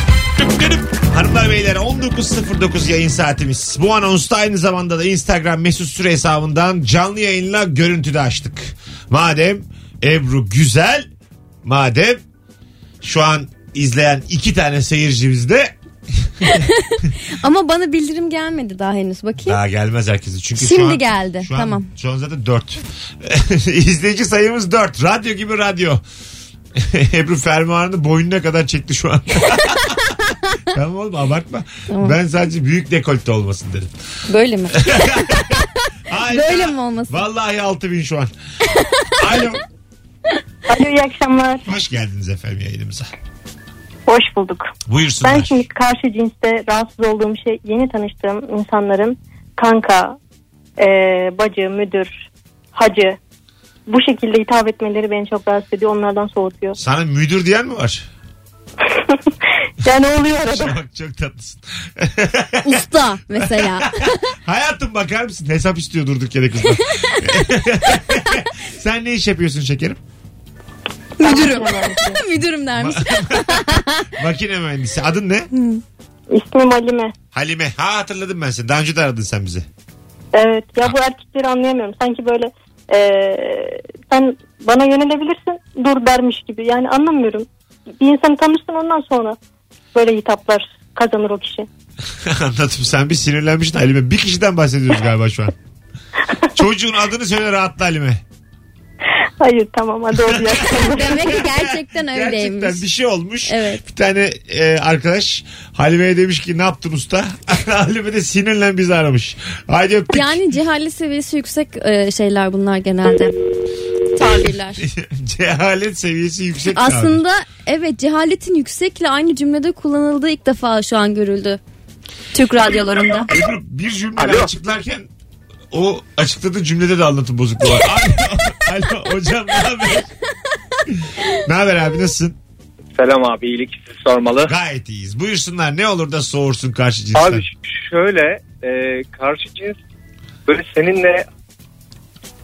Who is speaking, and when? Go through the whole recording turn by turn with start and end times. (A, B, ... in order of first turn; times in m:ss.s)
0:00.4-0:11.1 A
0:11.6-0:12.2 A
0:13.0-0:16.7 A
0:16.4-0:19.6 B
0:19.4-0:26.0 A
0:20.6-0:21.9 B
0:26.8-0:30.2 A
0:30.7-0:33.9 A
0:31.9-0:32.2 B
0:34.3-0:35.6 B
0:34.8-0:38.3 A
0:36.3-0:37.2 B
0:38.7-0:39.1 B
0:39.2-0:39.6 A
0:40.7-0:41.6 C
0:41.7-0:43.1 A
0:44.1-0:44.7 C
0:44.9-0:45.7 A
0:45.2-0:50.2 C
0:50.8-0:52.2 C
0:52.8-0:53.2 C
0:53.9-0:56.8 C
0:56.8-0:58.1 A
0:58.9-0:59.3 C
0:59.8-1:00.8 C
1:00.2-1:02.8 A
1:02.6-1:04.2 B
1:03.4-1:10.0 A
1:11.2-1:14.1 B
1:11.2-1:12.2 C
1:12.8-1:15.5 A
1:15.5-1:15.8 B
1:16.3-1:17.1 C
1:17.3-1:19.7 A
1:20.3-1:27.5 C
1:28.0-1:29.4 C
1:29.9-1:31.7 C
1:32.2-1:35.5 A
1:36.6-1:38.2 A
1:39.4-1:41.4 C
1:40.1-1:50.4 A
1:40.8-1:42.8 B
1:43.5-1:43.8 B
1:50.1-1:53.4 B
1:54.1-1:54.8 B
1:54.5-1:57.2 A
1:56.7-2:01.6 B
2:02.3-2:03.3 B
2:03.3-2:05.1 A
2:04.2-2:04.4 D
2:05.7-2:10.1 A
2:10.9-2:12.4 A
2:13.0-2:14.5 D
2:14.5-2:17.5 A
2:17.1-2:19.8 D
2:20.5-2:21.3 D